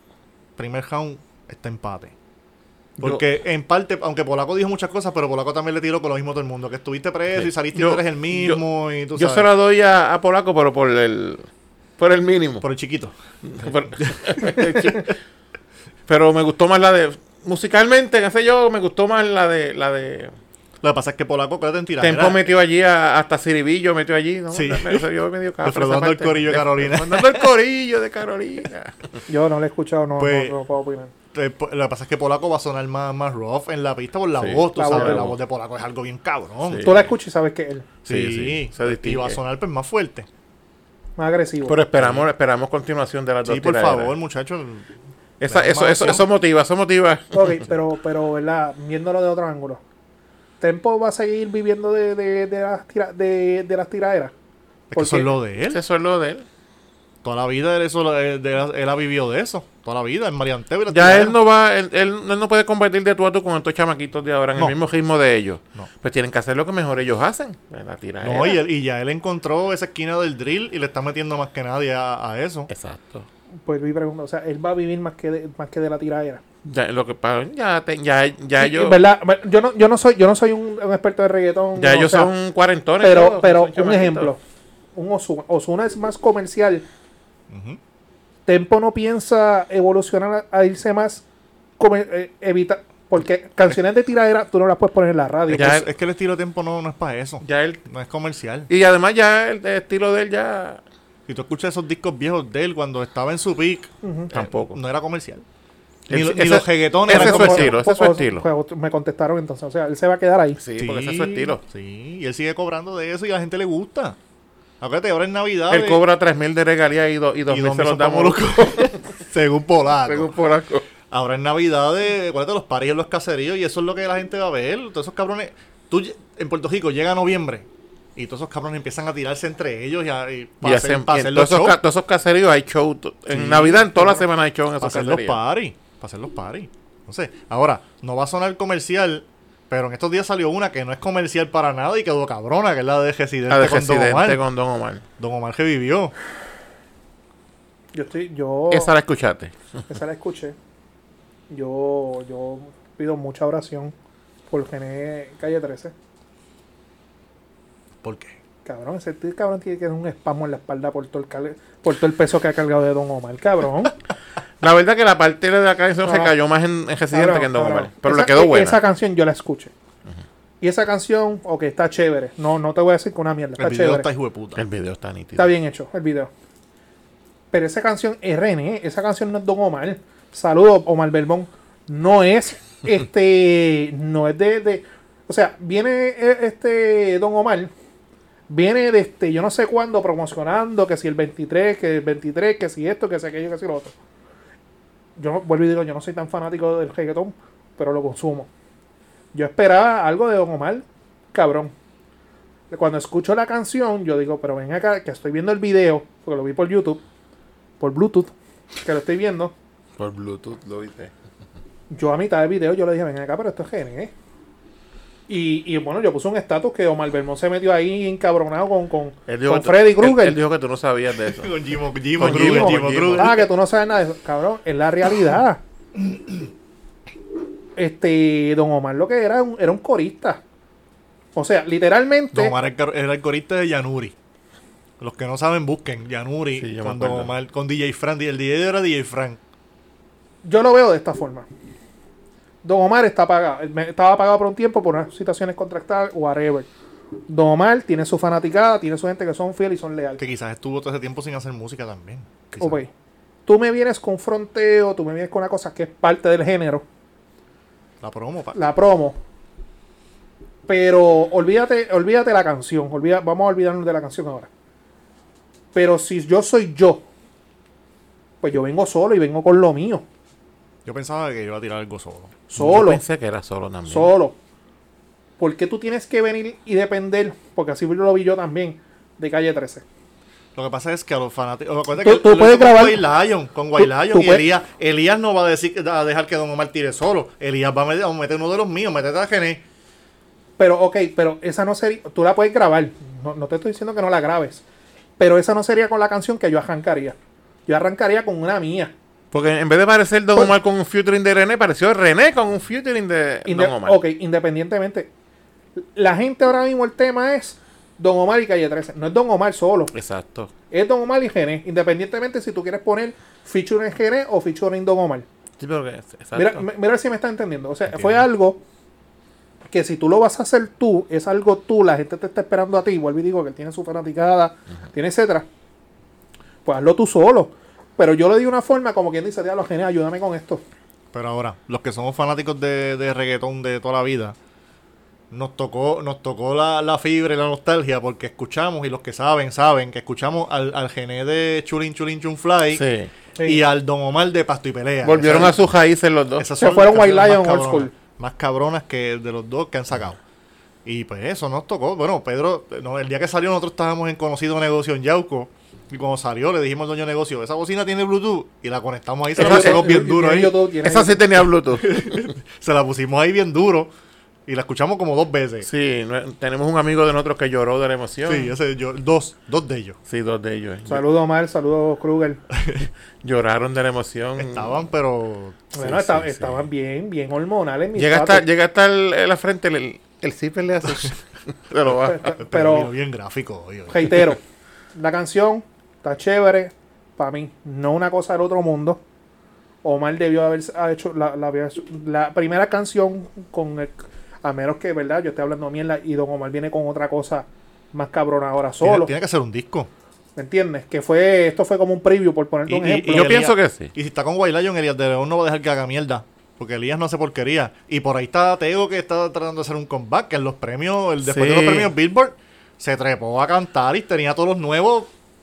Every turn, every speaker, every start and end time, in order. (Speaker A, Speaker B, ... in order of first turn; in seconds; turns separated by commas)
Speaker A: 0.6-2.1, Speaker A: 3.0-9.5, Speaker B: 7.3-8.6, Speaker B: 9.2-11.5, Speaker B: 12.0-12.7, Speaker A: 12.6-13.1, Speaker B: 13.4-15.2, Speaker A: 14.0-15.0, Speaker B: 16.1-20.4, Speaker A: 20.8-22.4, Speaker B: 22.0-29.2, Speaker A: 24.5-25.1, Speaker A: 25.6-27.5, Speaker C: 29.3-31.1, Speaker A: 30.2-30.6, Speaker A: 31.3-36.9, Speaker B: 34.4-35.4, Speaker C: 34.8-35.3, Speaker B: 36.6-37.0, Speaker C: 36.8-37.9, Speaker B: 38.1-39.4, Speaker A: 38.1-40.3, Speaker C: 41.2-41.8, Speaker B: 41.6-44.1, Speaker A: 42.0-42.2, Speaker A: 43.4-44.9, Speaker B: 45.4-47.6, Speaker A: 45.4-46.3, Speaker C: 47.3-49.8, Speaker C: 50.6-54.3, Speaker A: 54.9-55.8, Speaker C: 55.0-55.3, Speaker B: 55.7-56.5, Speaker A: 57.2-61.4, Speaker B: 60.9-68.6, Speaker A: 68.2-72.7, Speaker B: 72.7-73.3, Speaker C: 73.7-76.4, Speaker B: 76.6-79.0, Speaker C: 78.6-82.3, Speaker B: 81.8-84.3, Speaker C: 83.0-84.4, Speaker C: 85.0-86.9, Speaker A: 87.5-87.8, Speaker C: 88.5-91.2, Speaker C: 91.8-95.8, Speaker A: 95.5-98.7, Speaker B: 95.5-95.9, Speaker B: 97.4-97.8, Speaker B: 98.7-100.8, Speaker A: 101.3-105.4, Speaker C: 104.0-104.3, Speaker B: 104.3-104.8, Speaker B: 106.1-108.5, Speaker A: 106.1-107.8, Speaker C: 107.1-110.6, Speaker B: 110.6-111.6, Speaker A: 110.8-114.2, Speaker A: 114.8-116.0, Speaker B: 115.7-119.0, Speaker A: 117.5-120.3, Speaker B: 120.0-120.9, Speaker A: 121.1-131.8, Speaker B: 130.6-135.4, Speaker A: 133.3-134.3, Speaker A: 134.8-144.4, Speaker B: 143.5-145.0, Speaker A: 145.2-146.2, Speaker C: 147.9-148.9, Speaker B: 148.7-149.5, Speaker C: 149.9-150.6, Speaker C: 151.5-153.9, Speaker C: 154.5-155.9, Speaker A: 158.0-158.3, Speaker C: 158.7-163.9, Speaker B: 164.6-168.8, Speaker C: 166.0-166.3, Speaker C: 167.1-169.7, Speaker C: 170.6-174.1, Speaker A: 173.6-174.6, Speaker B: 174.6-175.5, Speaker C: 175.4-176.3, Speaker C: 177.5-187.7, Speaker C: 188.5-194.0, Speaker C: 195.2-198.5, Speaker C: 199.3-201.7, Speaker C: 202.7-207.0, Speaker C: 207.8-209.5, Speaker B: 210.0-211.1, Speaker C: 211.9-214.1, Speaker C: 215.3-220.4, Speaker B: 219.3-221.6, Speaker A: 221.2-223.5, Speaker B: 222.2-223.4, Speaker C: 222.2-225.6, Speaker A: 226.0-226.3, Speaker C: 227.8-230.4, Speaker C: 231.3-232.6, Speaker A: 232.3-234.2, Speaker A: 235.0-239.4, Speaker B: 236.6-237.3, Speaker C: 240.4-241.5, Speaker C: 242.6-246.7, Speaker C: 247.3-250.2, Speaker A: 250.2-252.8, Speaker C: 252.6-252.9, Speaker C: 253.5-256.9, Speaker A: 258.0-258.6, Speaker C: 258.6-259.2, Speaker C: 260.7-264.5, Speaker C: 265.7-267.1, Speaker C: 268.4-270.1, Speaker A: 270.9-272.4, Speaker C: 272.5-273.0, Speaker B: 272.6-274.1, Speaker C: 273.9-274.4, Speaker C: 275.4-279.9, Speaker A: 280.6-289.6, Speaker C: 282.0-283.0, Speaker C: 283.8-284.5, Speaker C: 290.6-294.6, Speaker C: 295.2-297.2, Speaker C: 297.7-298.9, Speaker B: 299.3-304.0, Speaker C: 303.5-305.1, Speaker C: 305.8-309.9, Speaker B: 309.9-310.5, Speaker C: 310.7-315.3, Speaker B: 315.6-316.7, Speaker C: 316.3-318.6, Speaker A: 317.9-318.2, Speaker C: 319.7-325.5, Speaker C: 326.6-330.6, Speaker A: 331.1-334.4, Speaker A: 335.3-342.8, Speaker B: 342.7-343.1, Speaker A: 343.4-345.6, Speaker B: 345.0-346.5, Speaker A: 346.4-350.2, Speaker C: 346.6-347.9, Speaker A: 350.9-360.6, Speaker C: 359.4-361.2, Speaker B: 359.4-360.0, Speaker B: 360.8-362.3, Speaker A: 361.7-363.9, Speaker A: 364.5-365.7, Speaker B: 365.6-368.6, Speaker A: 368.3-370.0, Speaker B: 370.1-371.1, Speaker C: 370.9-372.4, Speaker A: 372.6-372.9, Speaker B: 373.2-374.8, Speaker A: 374.4-376.5, Speaker C: 375.7-378.4, Speaker B: 378.0-382.3, Speaker A: 380.8-381.1, Speaker C: 381.9-382.9, Speaker A: 382.4-384.4, Speaker C: 383.9-384.4, Speaker C: 384.9-389.0, Speaker C: 389.8-399.1, Speaker A: 398.8-399.9, Speaker C: 400.4-403.4, Speaker A: 402.7-415.1, Speaker B: 403.1-403.9, Speaker B: 411.2-411.9